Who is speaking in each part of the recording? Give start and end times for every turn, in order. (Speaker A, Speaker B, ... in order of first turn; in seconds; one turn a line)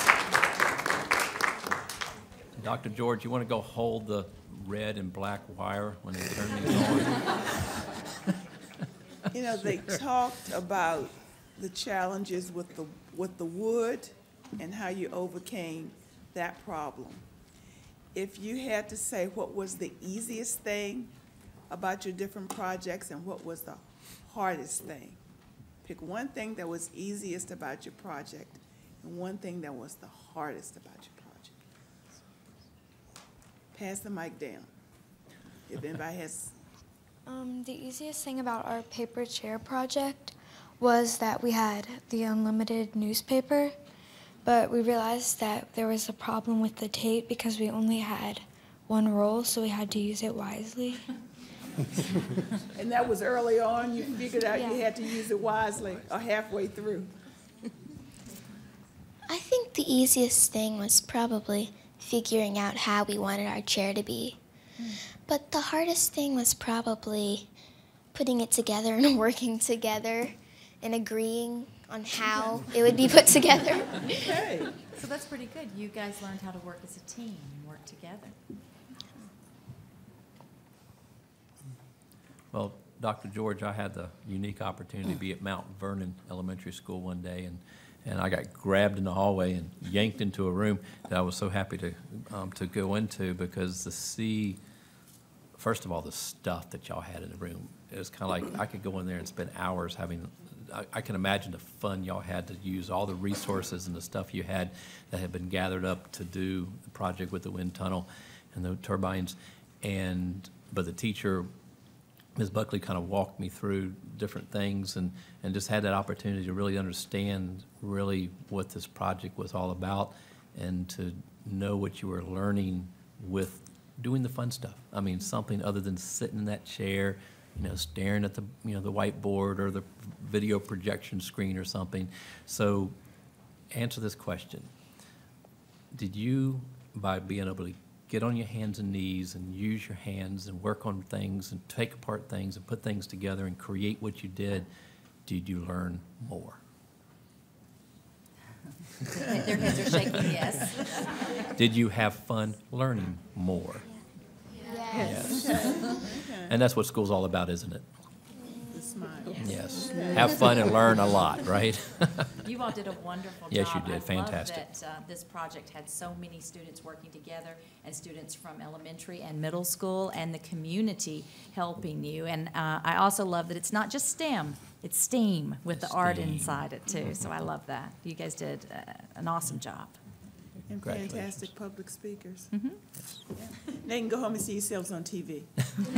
Speaker A: 2.6-7.5
Speaker B: 9.3-17.2
Speaker A: 9.5-10.0
Speaker B: 18.1-21.1
Speaker B: 21.7-25.2
Speaker B: 25.8-31.5
Speaker B: 33.7-34.7
Speaker B: 35.7-36.5
Speaker C: 37.2-43.7
Speaker C: 44.4-51.0
Speaker B: 52.7-57.1
Speaker D: 59.3-64.4
Speaker D: 65.3-67.5
Speaker D: 68.1-74.1
Speaker B: 74.2-74.7
Speaker E: 74.9-78.3
Speaker A: 82.5-94.6
Speaker A: 95.5-111.5
Speaker A: 112.3-132.9
Speaker A: 133.7-134.7
Speaker A: 135.9-144.7
Speaker A: 145.2-146.6
Speaker E: 149.2-151.2
Speaker A: 149.6-150.3
Speaker A: 151.5-153.8
Speaker E: 154.9-155.5
Speaker A: 154.9-157.8
Speaker B: 155.4-156.6
Speaker B: 158.7-161.2
Speaker A: 159.3-162.3
Speaker E: 162.4-180.0
Speaker A: 163.5-164.7
Speaker A: 175.7-176.7
Speaker B: 180.7-182.5
Speaker A: 180.7-181.6
Speaker E: 182.5-182.8
Speaker B: 183.3-185.5